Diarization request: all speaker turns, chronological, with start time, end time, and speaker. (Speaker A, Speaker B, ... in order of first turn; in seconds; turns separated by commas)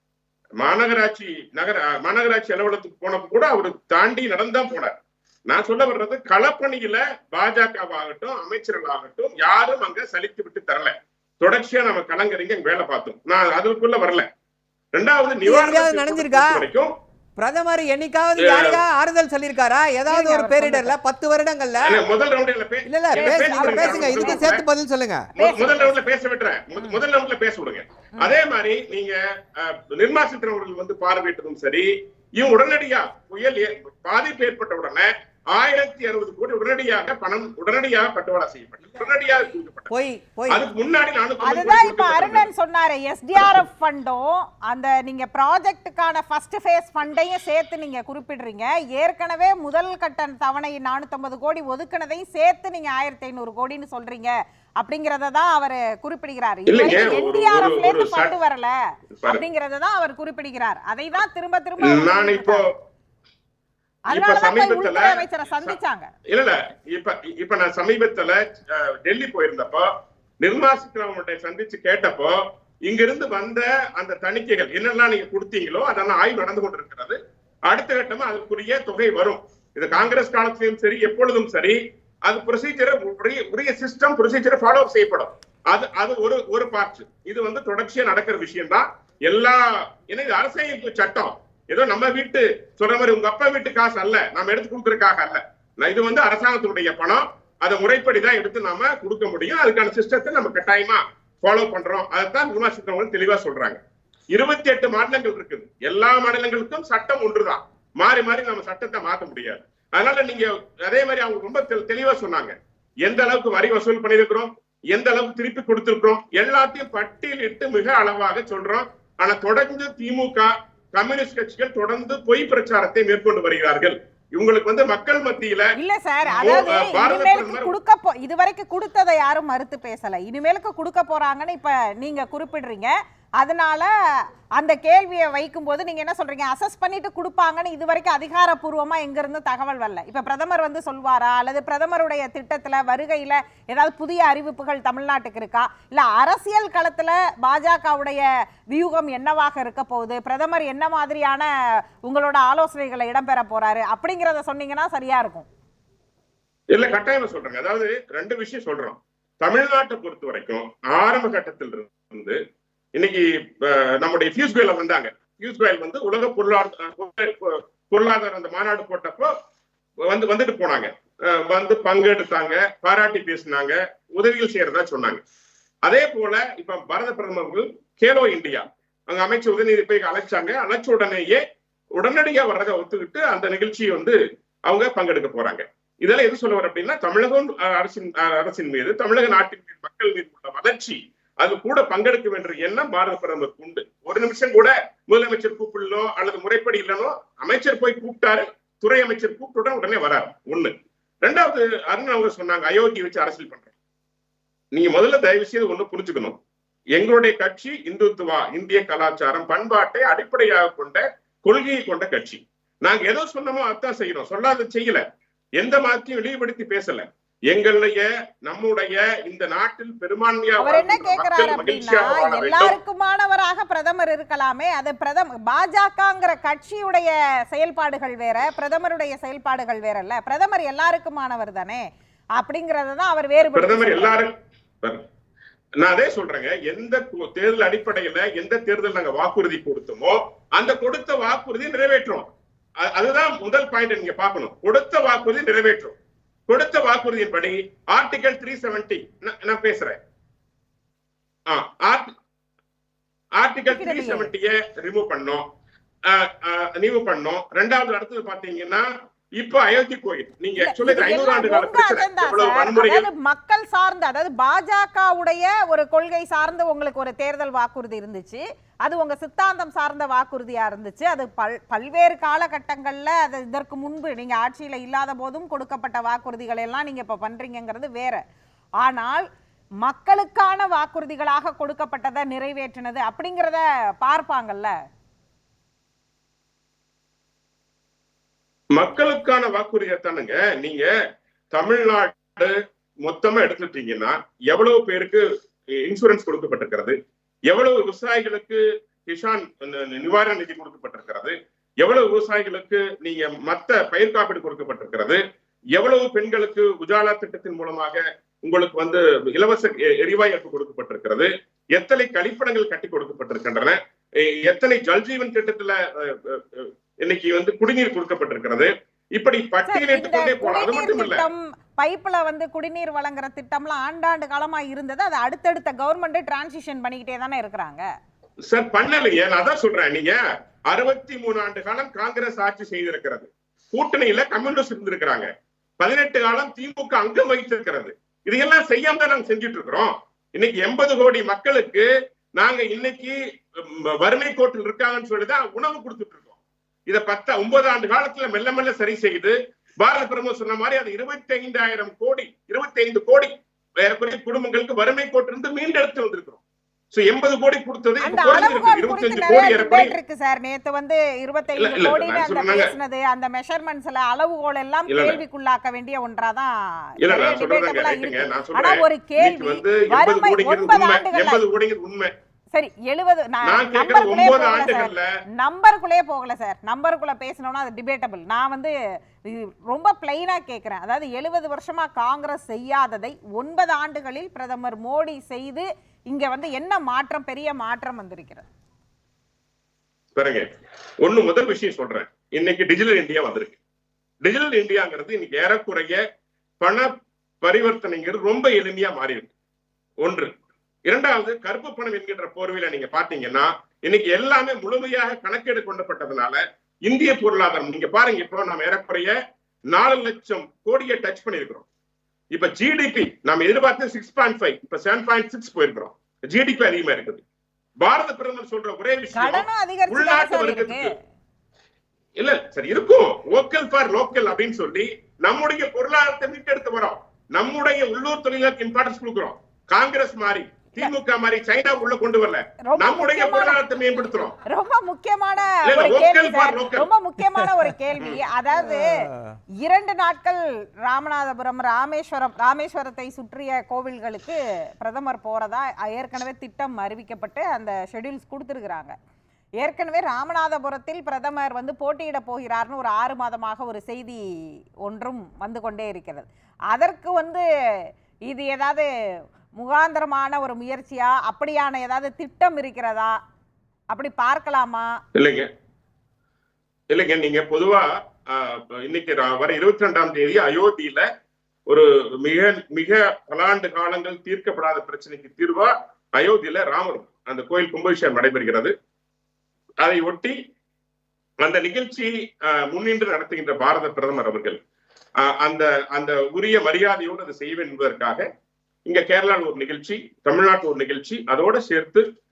Speaker A: 0.6-4.9, Speaker A: 5.5-14.2, Speaker A: 14.9-16.9, Speaker B: 15.4-16.6, Speaker B: 17.4-22.0, Speaker A: 18.4-18.8, Speaker C: 20.1-20.9, Speaker A: 21.8-24.6, Speaker B: 22.9-25.3, Speaker C: 23.1-24.5, Speaker C: 25.3-25.9, Speaker A: 25.4-39.9, Speaker B: 39.9-40.6, Speaker A: 40.5-42.5, Speaker C: 41.4-58.7, Speaker A: 56.7-58.3, Speaker A: 59.2-59.4, Speaker C: 59.3-62.7, Speaker A: 61.8-62.7, Speaker C: 64.1-66.1, Speaker A: 64.1-65.8, Speaker A: 66.3-69.9, Speaker A: 70.4-77.2, Speaker A: 77.7-103.8, Speaker A: 104.3-125.7, Speaker C: 125.8-133.9, Speaker A: 126.2-127.7, Speaker C: 134.6-151.5, Speaker C: 152.0-155.5, Speaker A: 156.7-162.4, Speaker A: 162.9-169.3, Speaker A: 170.1-175.2, Speaker A: 175.8-181.4, Speaker A: 181.9-203.7, Speaker A: 204.8-206.4, Speaker A: 206.9-215.0, Speaker A: 215.6-222.8, Speaker C: 220.6-231.8, Speaker C: 232.4-234.2, Speaker A: 233.5-235.0, Speaker A: 235.8-242.3, Speaker A: 242.8-245.9, Speaker A: 246.5-249.9, Speaker A: 251.5-252.1, Speaker A: 253.4-255.4, Speaker C: 253.7-254.3, Speaker A: 256.1-263.1, Speaker C: 260.6-278.2, Speaker C: 278.8-279.2, Speaker C: 279.8-284.7, Speaker A: 288.8-290.9, Speaker A: 291.5-295.2, Speaker A: 295.8-296.9, Speaker A: 297.5-305.2, Speaker A: 305.8-321.3, Speaker C: 319.6-327.9, Speaker A: 328.4-335.3, Speaker A: 335.8-356.4, Speaker A: 356.9-359.9, Speaker C: 358.0-371.4, Speaker A: 361.6-362.7, Speaker A: 364.9-365.2, Speaker A: 367.0-372.1, Speaker C: 372.5-388.4, Speaker A: 373.4-375.1, Speaker A: 390.1-390.5, Speaker A: 391.0-393.6, Speaker A: 394.2-396.0, Speaker A: 396.6-396.9, Speaker A: 397.4-399.3, Speaker A: 400.0-400.3, Speaker A: 400.9-409.2, Speaker A: 409.7-411.7, Speaker A: 412.3-417.2, Speaker A: 417.8-420.9, Speaker C: 419.1-420.9, Speaker A: 422.2-434.3, Speaker C: 432.6-433.6, Speaker C: 434.4-439.1, Speaker A: 435.6-436.9, Speaker B: 438.6-439.3, Speaker C: 439.6-448.9, Speaker C: 449.6-454.2, Speaker C: 454.8-457.4, Speaker C: 458.3-458.9, Speaker C: 459.6-463.1, Speaker C: 463.9-464.9, Speaker A: 465.1-465.5, Speaker A: 466.9-471.1, Speaker A: 471.7-478.7, Speaker A: 479.8-480.4, Speaker A: 481.4-484.6, Speaker A: 485.2-488.2, Speaker A: 488.9-492.1